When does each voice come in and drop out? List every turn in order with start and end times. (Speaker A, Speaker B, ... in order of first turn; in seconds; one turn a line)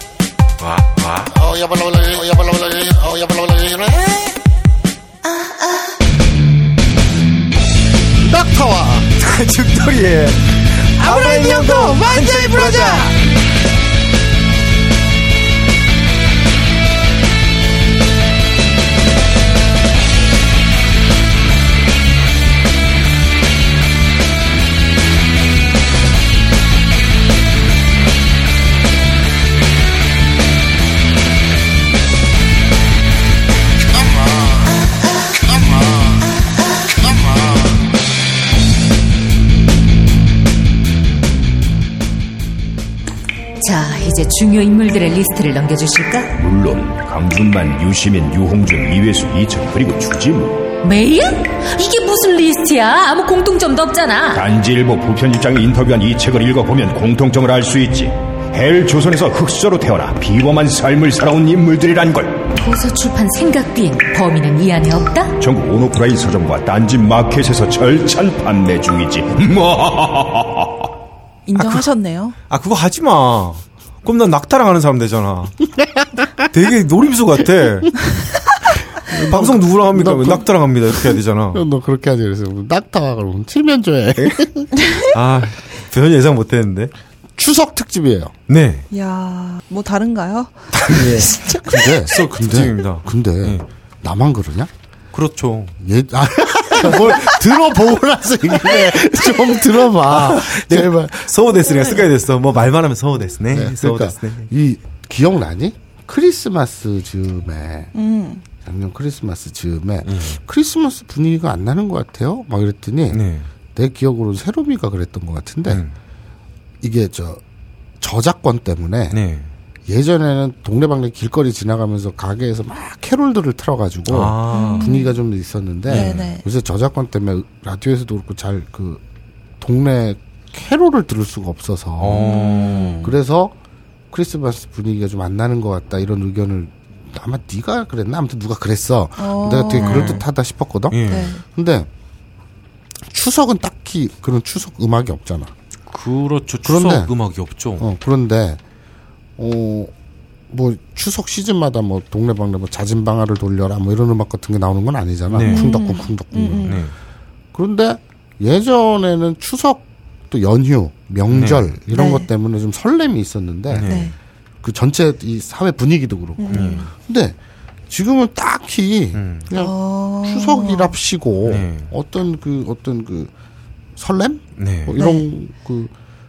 Speaker A: 0.6-1.3
Speaker B: 1.3-4.4
Speaker B: 8.2-9.1
Speaker A: 9.2-13.1
Speaker B: 11.0-13.1
Speaker C: 12.6-13.1
Speaker B: 33.9-34.8
Speaker B: 35.4-36.3
Speaker B: 37.0-37.9
Speaker D: 43.6-46.4
Speaker E: 46.4-50.7
Speaker D: 50.8-54.4
Speaker E: 54.3-62.5
Speaker D: 62.5-65.4
Speaker E: 65.4-70.9
Speaker C: 71.5-72.4
Speaker A: 71.6-71.8
Speaker A: 72.5-75.6
Speaker A: 76.4-78.0
Speaker B: 79.0-84.7
Speaker A: 79.1-81.6
Speaker A: 84.2-84.4
Speaker C: 84.8-85.1
Speaker A: 85.0-86.9
Speaker B: 87.4-88.3
Speaker A: 88.5-88.9
Speaker C: 88.9-91.6
Speaker A: 90.7-93.6
Speaker B: 91.0-94.7
Speaker A: 95.1-95.8
Speaker B: 95.8-101.3
Speaker A: 96.8-97.2
Speaker A: 99.8-104.5
Speaker B: 103.5-107.9
Speaker C: 107.9-108.4
Speaker B: 108.6-113.2
Speaker A: 110.0-110.4
Speaker A: 113.1-113.5
Speaker B: 113.8-115.8
Speaker A: 115.7-115.9
Speaker B: 116.8-117.4
Speaker B: 118.0-119.2
Speaker A: 119.1-119.5
Speaker B: 119.9-129.0
Speaker A: 124.1-125.0
Speaker C: 124.5-125.2
Speaker A: 125.9-126.3
Speaker C: 125.9-126.4
Speaker B: 129.6-132.4
Speaker A: 132.0-133.1
Speaker C: 132.1-133.2
Speaker B: 133.0-133.6
Speaker B: 134.1-141.9
Speaker C: 139.2-140.2
Speaker A: 139.8-140.2
Speaker A: 140.9-141.3
Speaker C: 141.1-141.4
Speaker B: 143.1-145.5
Speaker A: 145.9-147.9
Speaker B: 146.6-147.1
Speaker B: 147.8-148.6
Speaker B: 149.4-149.9
Speaker B: 150.5-156.8
Speaker A: 155.3-155.7
Speaker C: 155.4-156.8
Speaker A: 156.6-156.9
Speaker B: 157.5-164.0
Speaker A: 161.3-161.8
Speaker C: 161.9-162.3
Speaker A: 163.7-164.1
Speaker C: 163.8-164.2
Speaker B: 164.6-167.4
Speaker C: 166.4-166.9
Speaker A: 166.5-166.9
Speaker B: 167.9-173.3
Speaker A: 169.2-169.5
Speaker C: 169.5-170.9
Speaker A: 171.4-171.9
Speaker B: 174.0-175.9
Speaker A: 174.6-175.0
Speaker C: 175.0-175.3